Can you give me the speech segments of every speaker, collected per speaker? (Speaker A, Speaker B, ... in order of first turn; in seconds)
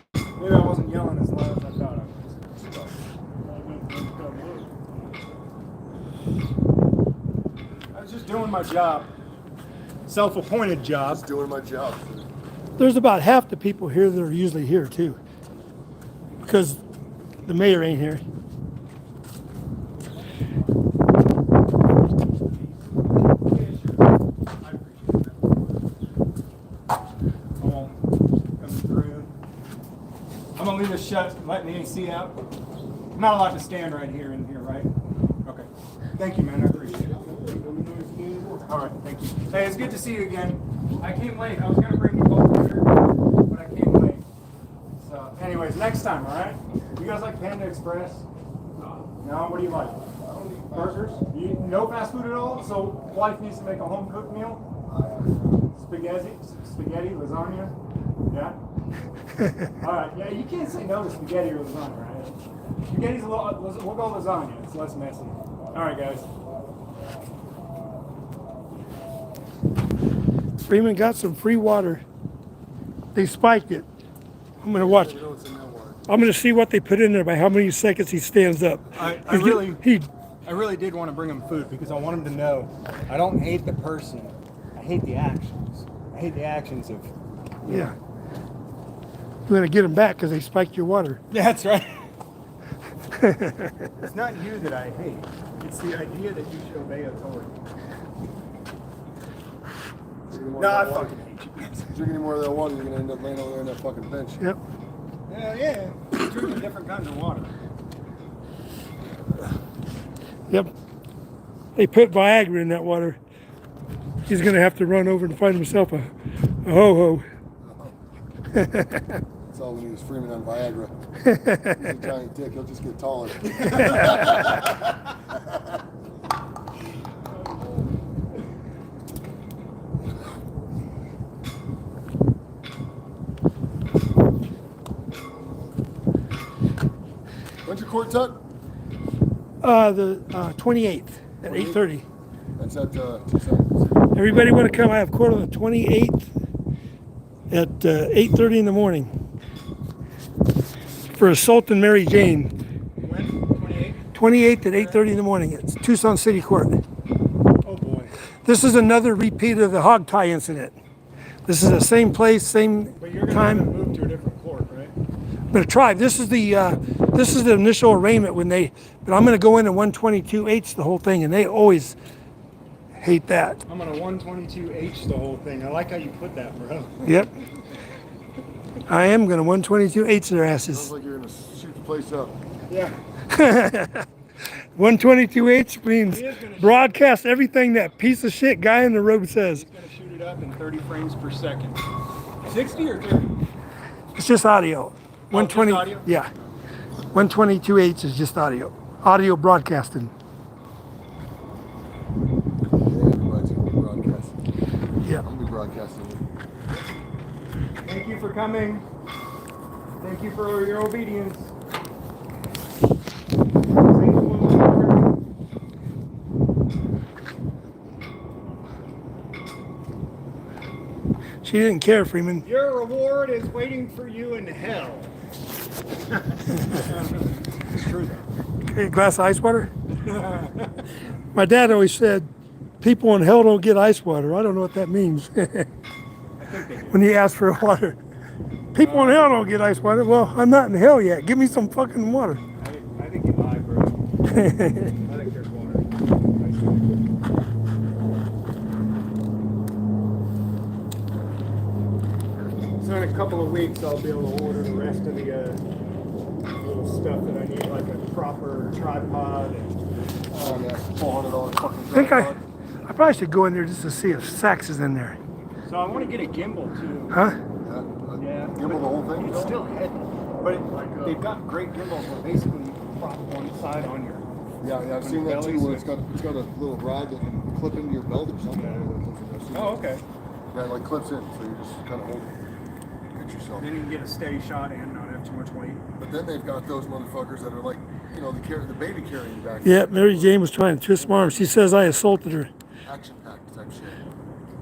Speaker A: 0.4-2.5, 3.4-4.8, 7.9-9.1, 10.1-11.2, 20.2-20.5, 22.4-25.9, 27.6-27.9, 28.6-29.3, 30.6-32.4, 33.1-34.9, 35.5-37.2, 38.6-42.9, 43.5-44.2, 45.0-48.2, 49.2-50.0, 50.7-54.6, 55.8-57.8, 58.3-58.6, 59.8-66.3, 79.0-79.8, 80.5-87.1, 87.7-87.9, 91.3-92.1, 94.0-97.5, 100.6-101.9, 105.3-107.5, 153.0-155.0, 157.7-158.2, 163.0-164.9, 173.7-176.9, 182.7-183.0, 186.1-186.9, 189.5-191.8, 192.4-193.3, 195.3-196.5, 207.8-208.9, 210.0-211.5, 213.8-215.1, 222.4-225.2, 226.3-228.3, 230.0-230.9, 236.4-237.0, 238.8-239.4, 242.6-244.0, 245.0-247.0, 252.8-255.6, 256.6-260.6, 265.7-267.2, 268.2-274.3, 275.0-275.9, 278.5-278.9, 279.5-280.0, 283.6-285.8
Speaker B: 2.5-2.9, 11.1-12.3, 37.1-38.6, 50.2-51.0, 74.7-76.1, 100.3-101.2, 101.9-104.4, 117.6-117.9, 119.5-120.9, 121.7-124.7, 137.7-138.4, 142.6-144.0, 180.7-182.4, 202.8-204.4, 205.2-206.2, 260.3-262.4, 267.6-269.6, 270.7-271.2, 274.6-279.9, 280.5-282.4, 283.1-283.7, 286.0-290.4, 292.9-294.0
Speaker C: 12.8-15.2, 16.4-16.8, 17.5-18.2, 70.7-72.0, 73.2-73.9, 74.6-75.1, 76.1-80.1, 87.7-88.0, 89.5-91.2, 93.2-93.9, 111.8-113.2, 114.3-116.1, 116.7-117.2, 118.5-119.2, 121.3-121.7, 139.6-142.1, 144.2-146.3, 147.5-149.1, 151.2-152.5, 154.2-156.8, 158.4-160.7, 161.4-163.7, 165.5-172.0, 173.0-173.6, 177.0-177.3, 178.9-180.9, 183.3-184.1, 184.8-189.6, 194.2-196.3, 197.1-200.1, 221.4-222.4, 228.7-229.7, 231.3-232.3, 232.8-235.7, 236.9-238.0, 238.7-242.4, 244.3-244.9, 261.9-265.2, 267.1-267.4, 289.6-292.5